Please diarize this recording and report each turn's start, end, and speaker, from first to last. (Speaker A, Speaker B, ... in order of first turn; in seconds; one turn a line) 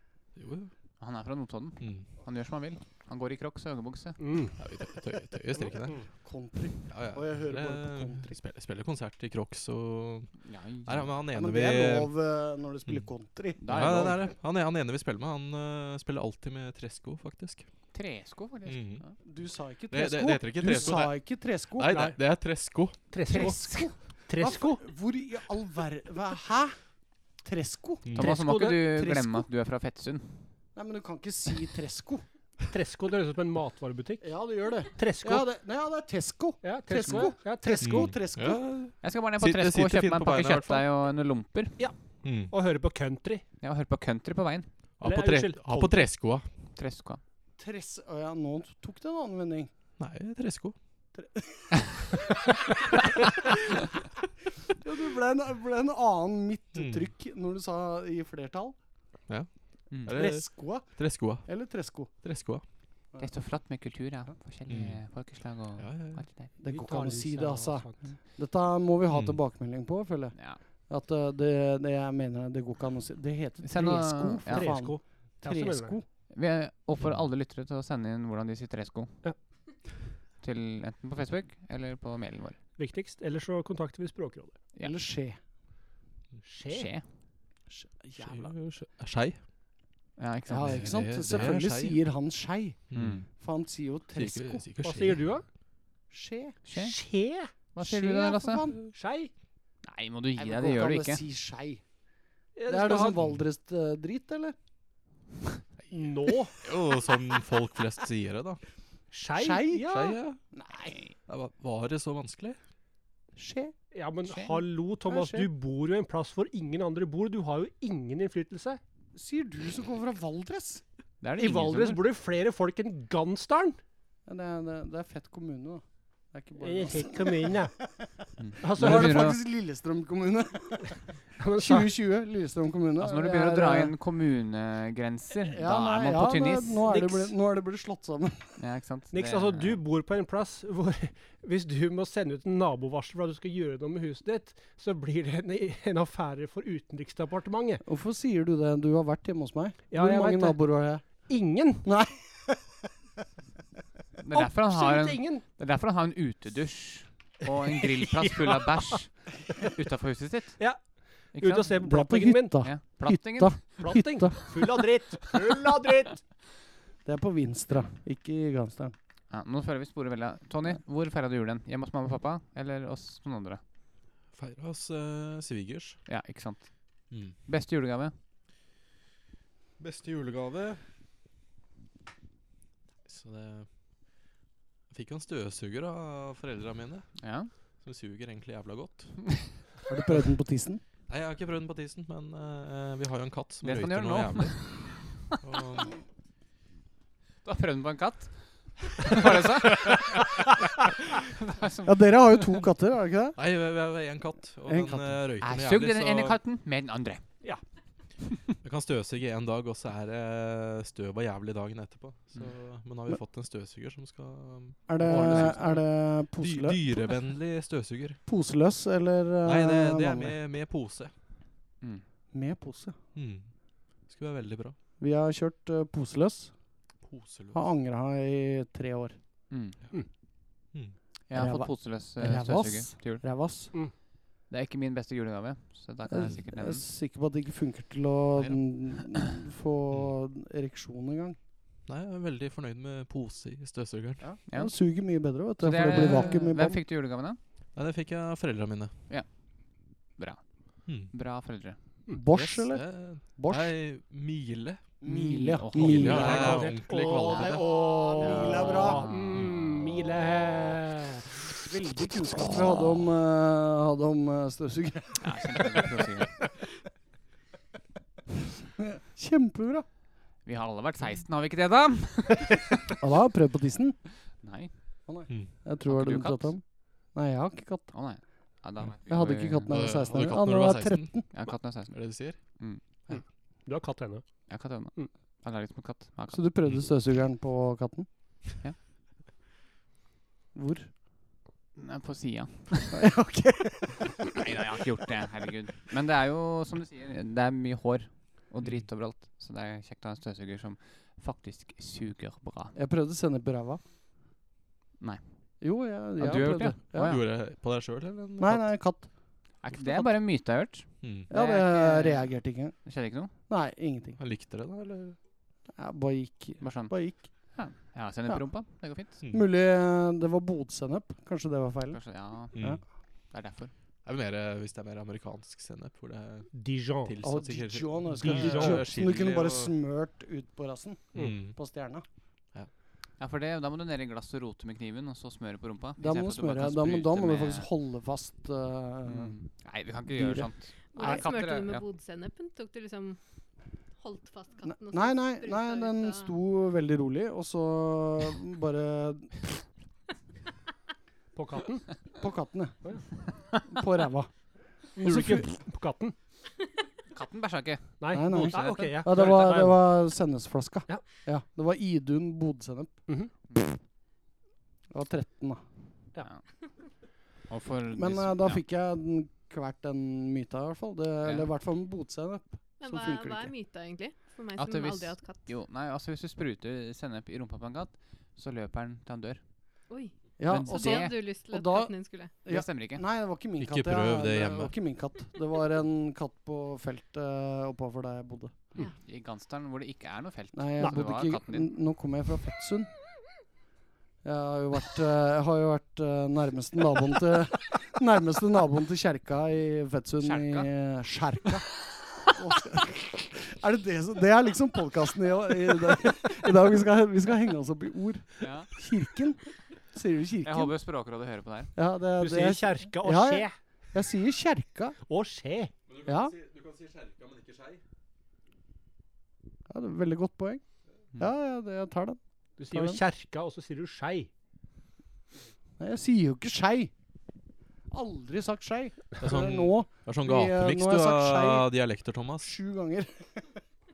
Speaker A: 0.3-0.7
Speaker B: 1.0-4.2
Speaker A: 1.8-2.1
Speaker C: 4.2-4.6
Speaker A: 4.6-6.0
Speaker D: 6.0-8.3
Speaker A: 6.9-12.1
Speaker B: 10.4-11.1
Speaker D: 11.3-14.2
Speaker A: 12.8-13.1
Speaker B: 13.6-14.2
Speaker A: 13.7-17.7
Speaker B: 17.9-19.1
Speaker A: 18.6-19.1
Speaker D: 19.2-22.0
Speaker A: 19.9-23.1
Speaker C: 23.1-24.8
Speaker D: 23.3-26.8
Speaker B: 23.3-23.9
Speaker D: 27.4-28.2
Speaker A: 28.1-28.4
Speaker B: 28.1-30.5
Speaker C: 28.2-28.9
Speaker D: 28.7-29.5
Speaker D: 30.7-32.2
Speaker C: 32.7-35.5
Speaker D: 34.2-38.6
Speaker C: 36.6-38.2
Speaker A: 37.8-40.9
Speaker B: 39.0-41.9
Speaker C: 41.8-43.4
Speaker A: 42.2-42.5
Speaker B: 43.6-44.7
Speaker A: 45.0-46.5
Speaker C: 45.0-46.0
Speaker B: 46.7-47.2
Speaker D: 47.6-49.7
Speaker A: 50.0-50.8
Speaker D: 51.1-51.8
Speaker D: 54.7-58.8
Speaker A: 56.7-57.1
Speaker A: 59.3-62.6
Speaker B: 59.9-60.1
Speaker C: 60.1-60.4
Speaker D: 60.2-62.1
Speaker B: 63.2-66.5
Speaker A: 64.7-66.4
Speaker D: 66.6-76.1
Speaker C: 66.7-68.1
Speaker A: 69.1-69.4
Speaker B: 70.3-70.6
Speaker B: 73.6-74.8
Speaker C: 74.5-76.0
Speaker B: 76.3-79.5
Speaker B: 80.4-82.6
Speaker C: 82.8-84.6
Speaker D: 84.8-85.4
Speaker C: 86.4-86.9
Speaker B: 86.7-87.0
Speaker D: 87.7-88.5
Speaker A: 88.2-89.4
Speaker B: 90.2-90.9
Speaker D: 90.5-94.6
Speaker A: 90.7-92.0
Speaker A: 92.9-93.3
Speaker B: 92.9-93.2
Speaker A: 94.1-95.2
Speaker C: 94.8-95.4
Speaker D: 96.1-96.6
Speaker B: 96.6-96.9
Speaker C: 96.7-97.5
Speaker B: 97.5-98.7
Speaker D: 97.8-98.9
Speaker C: 98.9-99.3
Speaker B: 99.8-101.2
Speaker D: 100.3-101.8
Speaker C: 102.5-103.2
Speaker D: 102.7-104.5
Speaker C: 105.9-106.6
Speaker A: 106.6-108.6
Speaker C: 109.1-110.2
Speaker D: 109.3-111.0
Speaker A: 109.8-110.4
Speaker A: 111.3-112.6
Speaker D: 113.3-113.7
Speaker C: 113.9-118.8
Speaker B: 114.2-114.6
Speaker D: 115.0-115.5
Speaker D: 119.1-120.8
Speaker B: 121.2-122.0
Speaker C: 121.4-123.8
Speaker D: 124.3-133.9
Speaker C: 126.6-127.8
Speaker B: 128.4-129.4
Speaker C: 128.6-129.2
Speaker C: 131.4-131.9
Speaker B: 133.0-137.3
Speaker D: 135.4-138.6
Speaker B: 138.6-139.8
Speaker C: 139.1-147.8
Speaker D: 147.8-152.8
Speaker C: 149.9-151.9
Speaker B: 154.2-161.8
Speaker C: 154.3-155.4
Speaker C: 157.8-158.8
Speaker C: 160.6-162.6
Speaker D: 161.8-164.6
Speaker B: 162.6-163.8
Speaker C: 163.8-166.3
Speaker D: 167.0-168.9
Speaker B: 169.3-173.6
Speaker A: 174.3-176.0
Speaker B: 176.1-178.1
Speaker A: 177.1-177.4
Speaker A: 179.8-180.8
Speaker A: 183.1-183.7
Speaker A: 184.9-189.7
Speaker B: 187.2-187.5
Speaker D: 189.9-190.8
Speaker A: 191.1-196.0
Speaker B: 193.6-195.4
Speaker B: 197.4-200.2
Speaker B: 201.3-202.6
Speaker D: 201.8-203.4
Speaker A: 203.3-206.4
Speaker D: 204.6-205.2
Speaker B: 205.4-207.5
Speaker A: 208.6-218.2
Speaker D: 214.9-216.8
Speaker B: 215.0-215.8
Speaker D: 218.2-220.3
Speaker A: 219.4-221.1
Speaker D: 222.3-223.0
Speaker A: 223.1-224.8
Speaker D: 225.0-226.5
Speaker A: 227.0-227.6
Speaker D: 227.5-229.2
Speaker B: 229.5-229.8
Speaker B: 231.3-233.9
Speaker D: 231.3-233.7
Speaker B: 234.5-236.8
Speaker D: 236.1-241.4
Speaker A: 238.3-238.6
Speaker A: 241.9-244.3
Speaker D: 244.2-246.8
Speaker B: 244.5-244.7
Speaker B: 245.6-247.4
Speaker A: 245.8-246.4
Speaker A: 247.7-248.9
Speaker B: 249.1-251.8
Speaker A: 250.8-251.1
Speaker D: 252.1-253.7
Speaker A: 252.3-255.0
Speaker D: 255.0-259.1
Speaker B: 255.0-256.7
Speaker A: 255.7-257.7
Speaker C: 256.0-261.4
Speaker B: 258.2-259.5
Speaker D: 261.5-265.9
Speaker B: 265.2-266.4
Speaker D: 268.8-269.9
Speaker B: 270.4-272.7
Speaker D: 273.0-274.1
Speaker B: 274.4-274.8
Speaker D: 275.1-277.9
Speaker A: 275.3-275.5
Speaker B: 275.8-276.5
Speaker B: 277.9-279.7
Speaker D: 279.1-281.3
Speaker A: 279.7-283.2
Speaker B: 281.3-282.8
Speaker C: 283.1-285.1
Speaker B: 284.5-286.5
Speaker D: 286.3-288.4
Speaker D: 290.5-290.9
Speaker B: 291.8-293.1
Speaker D: 292.9-294.3
Speaker B: 294.3-302.8
Speaker D: 302.7-303.8
Speaker D: 305.6-307.2
Speaker B: 306.2-307.2
Speaker A: 306.9-308.8
Speaker D: 308.4-309.1
Speaker B: 309.6-313.3
Speaker A: 309.7-310.1
Speaker A: 311.0-311.3
Speaker D: 311.3-312.8
Speaker D: 313.3-314.2
Speaker A: 314.2-315.2
Speaker D: 315.7-317.6
Speaker B: 316.6-319.2
Speaker D: 319.3-322.8
Speaker B: 321.9-323.7
Speaker A: 322.5-322.8
Speaker A: 324.0-326.5
Speaker C: 326.5-327.2
Speaker A: 327.0-329.7
Speaker D: 327.2-332.0
Speaker C: 328.2-328.9
Speaker A: 331.1-331.6
Speaker B: 333.2-337.7
Speaker D: 336.0-339.4
Speaker B: 339.0-341.8
Speaker D: 340.1-341.2
Speaker E: 340.9-346.3
Speaker D: 344.6-349.6
Speaker C: 351.3-352.1
Speaker D: 352.2-355.5
Speaker C: 354.9-356.1
Speaker B: 357.1-358.9
Speaker C: 358.0-359.8
Speaker D: 358.1-363.1
Speaker D: 364.9-365.6
Speaker B: 367.4-368.6
Speaker D: 367.9-373.5
Speaker E: 372.8-375.4
Speaker B: 374.6-379.4
Speaker E: 379.9-382.3
Speaker D: 380.4-388.6
Speaker B: 380.5-381.2
Speaker B: 382.4-383.0
Speaker A: 383.6-384.7
Speaker B: 388.7-391.7
Speaker D: 390.5-392.9
Speaker D: 394.2-410.7
Speaker B: 400.2-400.7
Speaker B: 408.4-408.7
Speaker B: 410.4-411.7
Speaker D: 411.7-415.0
Speaker C: 412.2-413.6
Speaker C: 415.1-415.7
Speaker A: 415.9-417.8
Speaker D: 416.0-416.3
Speaker D: 419.7-420.6
Speaker D: 421.1-423.0
Speaker C: 422.6-424.3
Speaker D: 425.8-426.9
Speaker D: 427.9-431.7
Speaker A: 429.2-432.5
Speaker D: 432.4-433.5